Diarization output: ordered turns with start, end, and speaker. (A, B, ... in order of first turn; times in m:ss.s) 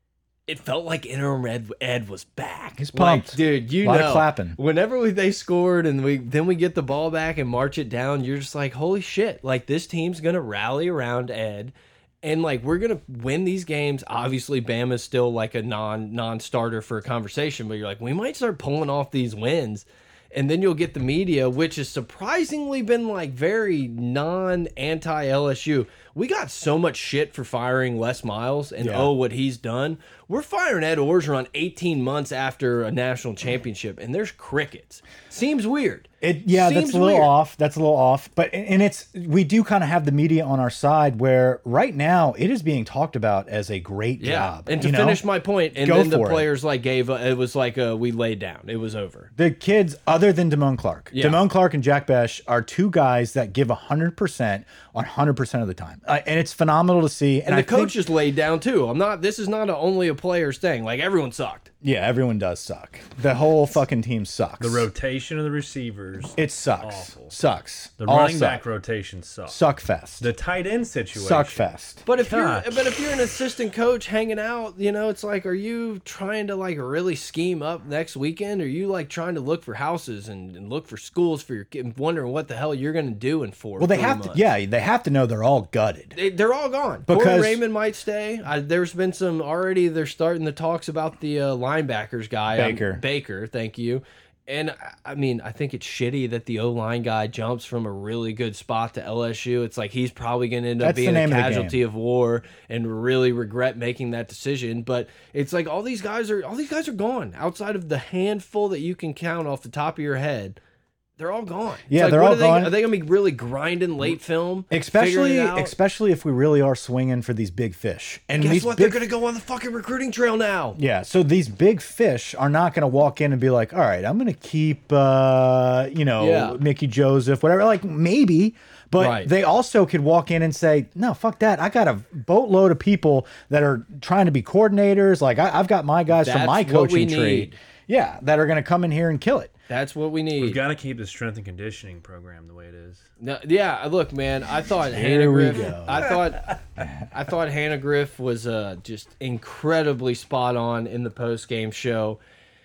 0:00.5-0:37.3 A
0:02.8-0:04.6 B
0:28.8-0:29.1 B
0:36.2-0:45.2 B
0:44.2-0:49.3 A
0:45.7-0:46.5 B
0:49.4-0:58.0 B
0:51.1-0:51.4 A
0:57.5-1:01.7 A
1:01.8-1:04.9 B
1:04.6-1:07.3 C
1:06.4-1:08.6 B
1:08.0-1:09.6 C
1:09.5-1:10.3 B
1:10.2-1:11.7 C
1:11.1-1:12.0 B
1:12.0-1:24.5 A
1:12.2-1:12.9 C
1:23.8-1:26.2 B
1:26.1-1:50.6 A
1:27.1-1:27.6 B
1:32.5-1:33.0 B
1:40.8-1:41.8 B
1:51.2-1:55.7 A
1:51.9-1:52.7 B
1:54.7-1:59.0 B
1:58.4-2:00.8 A
2:00.8-2:19.5 B
2:06.2-2:06.6 A
2:09.0-2:09.3 A
2:16.1-2:17.6 A
2:19.7-2:20.6 A
2:20.4-2:23.0 C
2:23.2-2:26.5 A
2:24.9-2:26.2 B
2:27.1-2:32.2 A